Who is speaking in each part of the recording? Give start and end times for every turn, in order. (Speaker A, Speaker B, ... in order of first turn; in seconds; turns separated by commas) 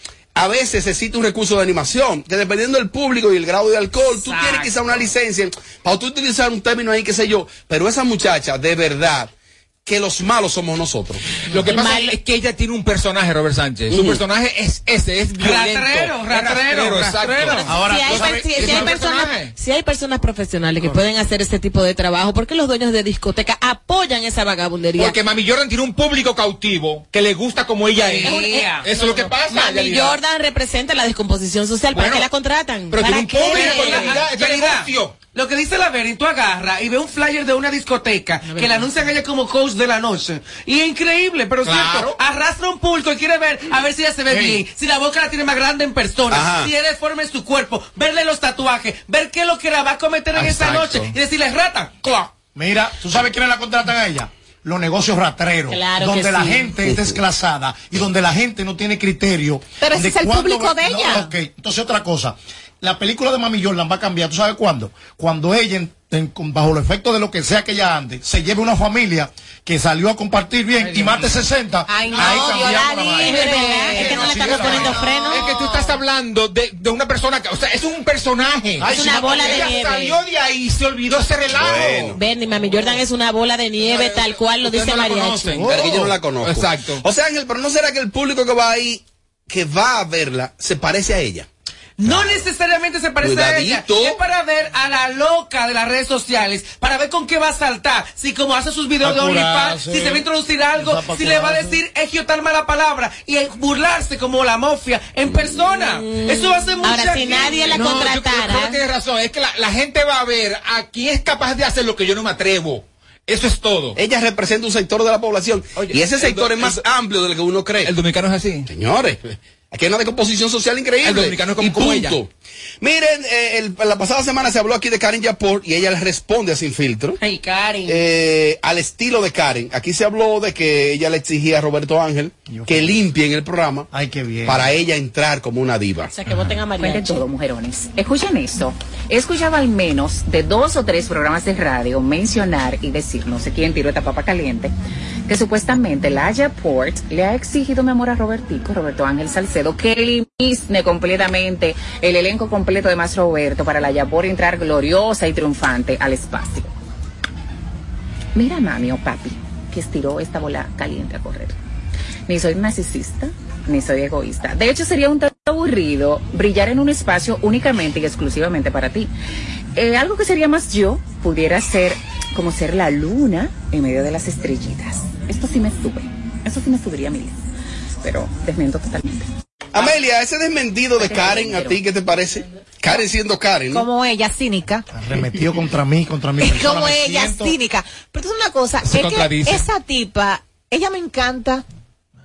Speaker A: 0.3-9.3, Speaker B: 4.0-5.0, Speaker A: 9.8-11.2, Speaker C: 11.5-19.5, Speaker D: 11.7-12.1, Speaker A: 13.9-14.2, Speaker B: 15.4-17.8, Speaker D: 17.4-25.1, Speaker E: 17.7-18.9, Speaker C: 24.9-30.2, Speaker B: 28.0-29.2, Speaker D: 28.2-28.7, Speaker D: 29.2-34.2, Speaker C: 31.9-32.3, Speaker C: 32.9-35.1, Speaker B: 33.5-52.3, Speaker D: 38.5-38.8, Speaker C: 41.6-42.2, Speaker E: 44.3-44.6, Speaker A: 46.3-46.7, Speaker C: 50.3-51.1, Speaker E: 52.5-73.4, Speaker D: 55.7-56.7, Speaker A: 56.9-57.1, Speaker F: 59.8-61.3, Speaker B: 70.8-71.4, Speaker F: 71.9-74.7, Speaker C: 72.2-72.5, Speaker D: 73.2-75.5, Speaker C: 73.4-82.2, Speaker E: 74.0-75.1, Speaker E: 78.8-79.6, Speaker D: 78.9-80.2, Speaker A: 81.5-82.2, Speaker D: 82.1-85.6, Speaker C: 83.8-87.0, Speaker E: 85.5-86.1, Speaker A: 85.7-91.5, Speaker B: 92.0-108.0, Speaker A: 92.0-92.4, Speaker A: 93.2-94.2, Speaker E: 99.0-101.8, Speaker D: 106.0-108.8, Speaker C: 107.7-114.0, Speaker A: 114.0-117.9, Speaker C: 115.7-116.8, Speaker C: 117.8-118.7, Speaker A: 118.7-122.3, Speaker C: 121.0-122.2, Speaker A: 122.8-127.2, Speaker B: 127.2-128.0, Speaker A: 127.8-133.9, Speaker E: 132.5-133.0, Speaker E: 133.9-134.6, Speaker A: 134.4-136.1, Speaker D: 136.1-137.2, Speaker G: 136.8-144.7, Speaker G: 145.3-156.7, Speaker G: 158.3-161.6, Speaker G: 162.3-169.1, Speaker G: 169.7-177.3, Speaker G: 178.0-179.3, Speaker A: 179.7-183.8, Speaker G: 181.0-181.8, Speaker F: 183.7-184.8, Speaker E: 184.9-187.5, Speaker F: 186.4-191.6, Speaker C: 188.8-189.7